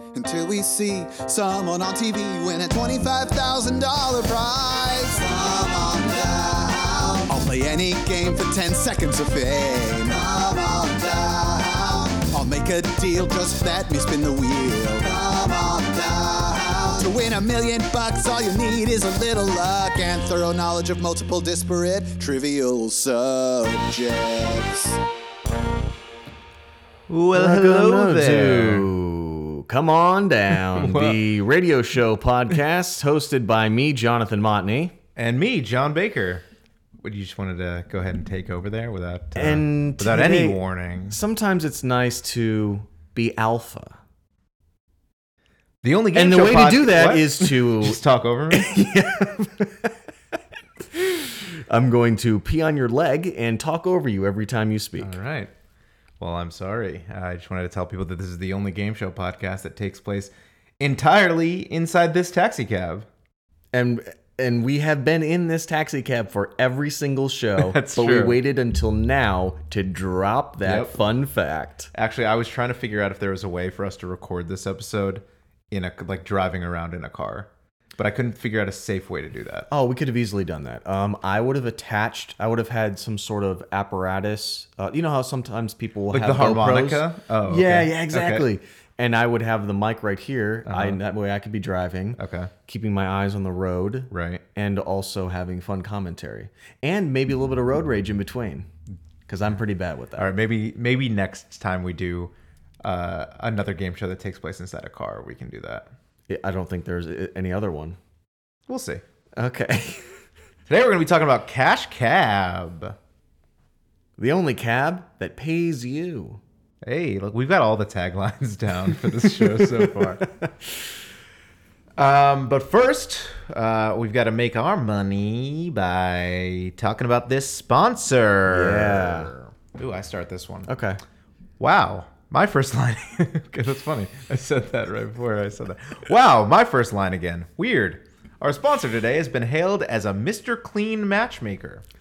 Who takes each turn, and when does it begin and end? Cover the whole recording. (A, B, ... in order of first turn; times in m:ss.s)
0:00.1-0:25.0 A
0:27.1-0:28.9 B
0:27.4-0:35.0 C
0:30.7-0:31.2 B
0:35.2-0:36.4 B
0:37.0-0:41.2 B
0:39.4-0:44.0 C
0:45.8-0:48.7 B
0:46.2-0:50.0 C
0:50.8-0:55.2 C
0:55.0-0:55.5 B
0:56.2-1:03.1 B
1:03.7-1:11.9 C
1:07.6-1:08.4 B
1:10.6-1:11.0 B
1:11.9-1:19.7 B
1:19.7-1:38.7 C
1:26.1-1:28.5 B
1:30.7-1:31.0 B
1:32.2-1:32.5 B
1:34.1-1:34.4 B
1:39.3-1:40.3 C
1:40.2-1:45.9 B
1:46.3-1:48.0 C
1:48.7-1:49.0 B
1:49.4-1:50.1 C
1:50.7-1:53.0 B
1:54.2-1:56.4 C
1:56.8-2:00.3 B
1:59.1-2:00.7 C
2:02.0-2:10.7 B
2:08.5-2:09.3 C
2:10.7-2:11.0 C
2:11.6-2:21.8 B